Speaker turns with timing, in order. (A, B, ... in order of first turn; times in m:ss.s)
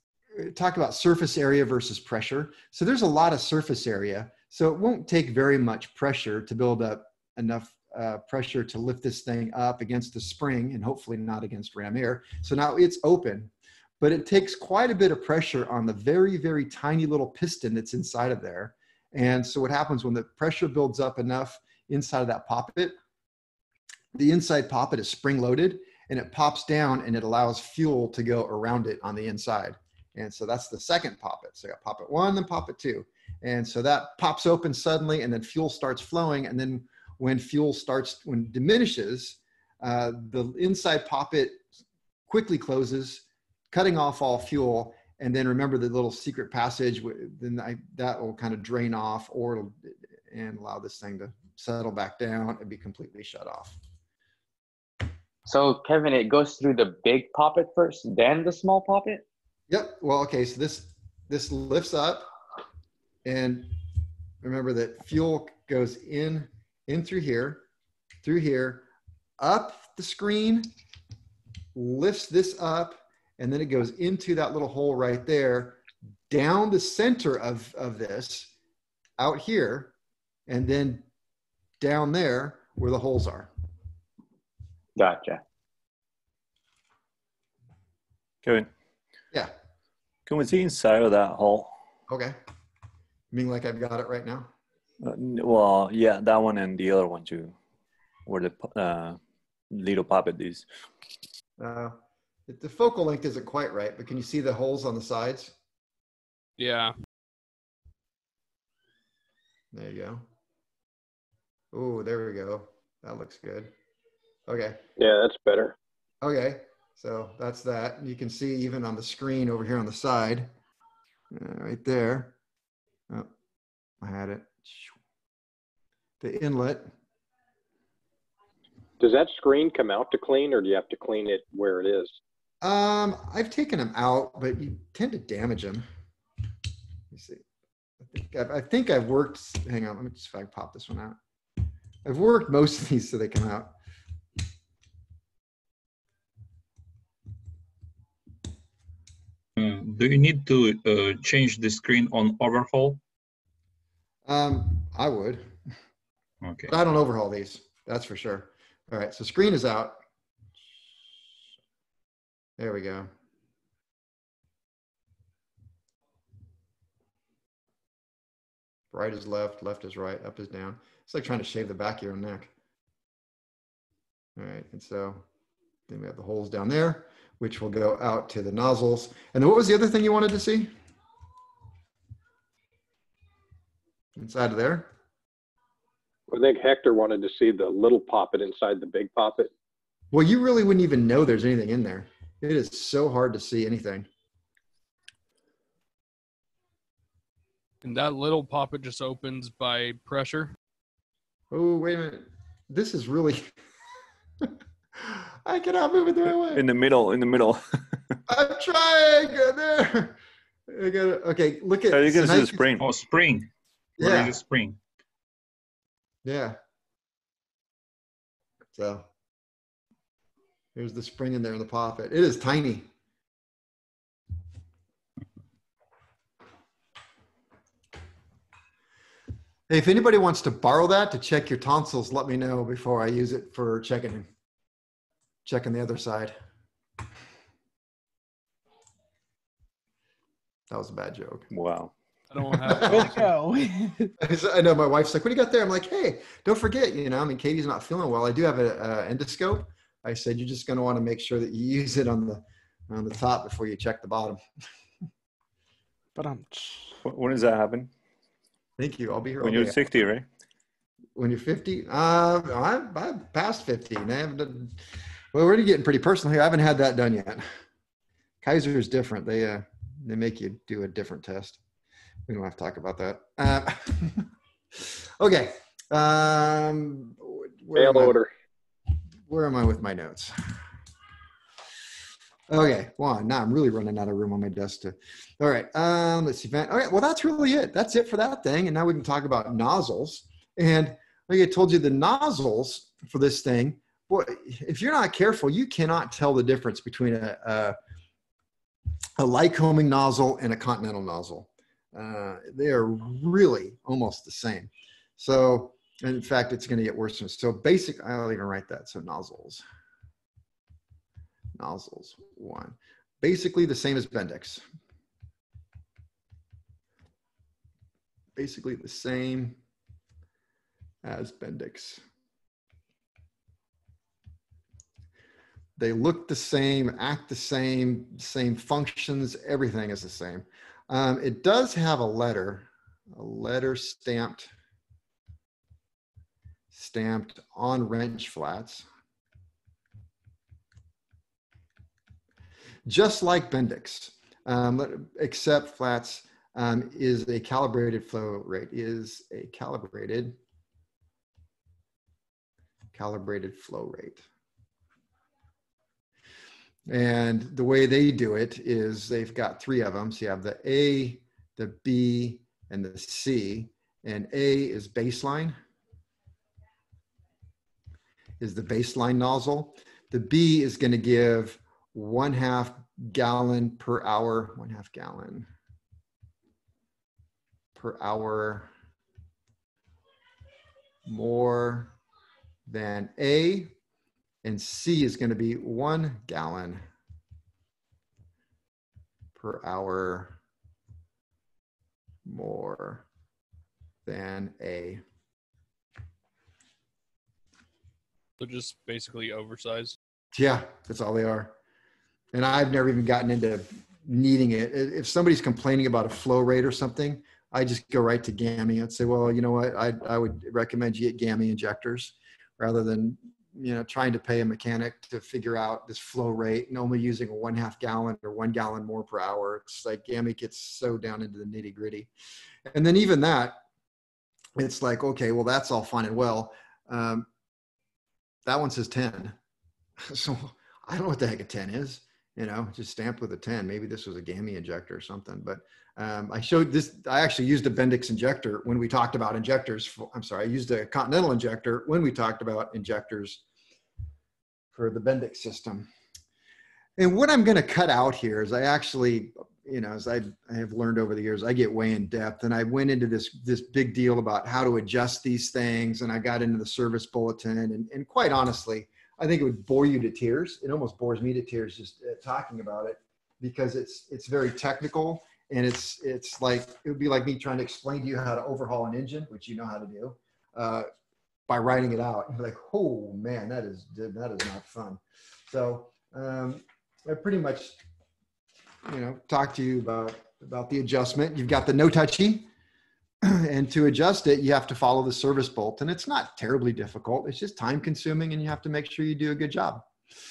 0:00.3-0:23.0 A
0:24.1-0:41.6 A
0:42.3-0:53.8 A
0:55.5-0:59.2 B
0:59.7-1:02.3 A
1:03.2-1:03.8 A
1:04.4-1:07.6 A
1:08.2-1:08.9 A
1:09.4-1:10.7 A
1:11.8-1:18.5 A
1:19.2-1:19.9 A
1:20.5-1:21.1 A
1:21.8-1:23.5 A
1:25.0-1:25.4 B
1:28.4-1:28.7 C
1:30.3-1:31.7 C
1:32.1-1:32.4 A
1:33.3-1:34.5 A
1:35.0-1:37.6 C
1:38.3-1:39.2 C
1:39.7-1:40.7 C
1:41.6-1:45.5 A
1:46.6-1:46.9 D
1:49.7-1:50.2 A
1:51.7-1:53.7 A
1:54.5-1:54.8 A
1:55.0-1:55.8 E
1:56.2-2:00.5 A
2:01.3-2:02.4 A
2:04.0-2:05.0 A
2:06.2-2:06.9 A
2:09.0-2:12.2 E
2:12.6-2:15.8 A
2:17.1-2:17.4 A
2:18.0-2:21.2 A
2:22.0-2:23.8 A
2:29.6-2:33.0 F
2:34.3-2:35.5 A
2:36.4-2:36.7 F
2:36.7-2:40.0 A
2:42.6-2:43.1 A
2:48.9-2:52.5 A
2:54.4-2:55.2 A
2:55.9-3:00.7 A
3:04.2-3:04.9 A
3:06.3-3:09.5 E
3:10.1-3:14.1 A
3:17.8-3:20.5 D
3:21.5-3:23.5 A
3:24.4-3:26.6 A
3:26.5-3:28.0 C
3:28.3-3:30.2 A
3:30.7-3:32.7 A
3:31.9-3:32.9 C
3:32.8-3:34.8 F
3:34.0-3:34.4 A
3:36.2-3:36.6 A
3:38.7-3:39.1 A
3:40.8-3:42.9 A
3:49.7-3:54.3 A
3:55.4-3:56.4 A
4:00.7-4:01.5 A
4:01.5-4:01.9 C
4:02.3-4:03.2 D
4:02.6-4:03.3 A
4:02.8-4:04.1 G
4:04.2-4:14.4 A
4:16.2-4:17.0 G
4:17.0-4:17.9 C
4:18.8-4:19.8 A
4:19.4-4:20.3 C
4:21.2-4:24.8 A
4:25.3-4:27.4 A
4:28.4-4:31.6 A
4:32.3-4:38.2 A
4:37.8-4:38.3 E
4:39.3-4:40.3 A
4:42.5-4:57.8 A
4:59.2-5:09.6 A
5:11.6-5:14.6 A
5:18.4-5:19.6 A
5:21.0-5:22.0 A
5:25.8-5:34.5 A
5:36.7-5:38.9 A
5:42.9-5:50.4 A
5:52.9-5:54.3 A
5:56.9-6:05.6 A
6:08.4-6:15.5 A
6:17.8-6:18.7 A
6:21.1-6:22.0 A
6:22.7-6:23.7 A
6:24.4-6:26.8 A
6:29.4-6:30.4 A
6:32.2-6:33.1 A
6:34.1-6:35.0 A
6:38.4-6:40.0 D
6:40.4-6:41.6 A
6:42.3-7:02.1 A
7:02.7-7:03.6 A
7:04.6-7:07.3 A
7:08.5-7:09.4 A
7:10.0-7:23.4 A
7:24.7-7:25.9 A
7:27.0-7:50.9 A
7:51.5-7:57.8 A
7:58.8-8:02.5 A
8:03.2-8:09.9 A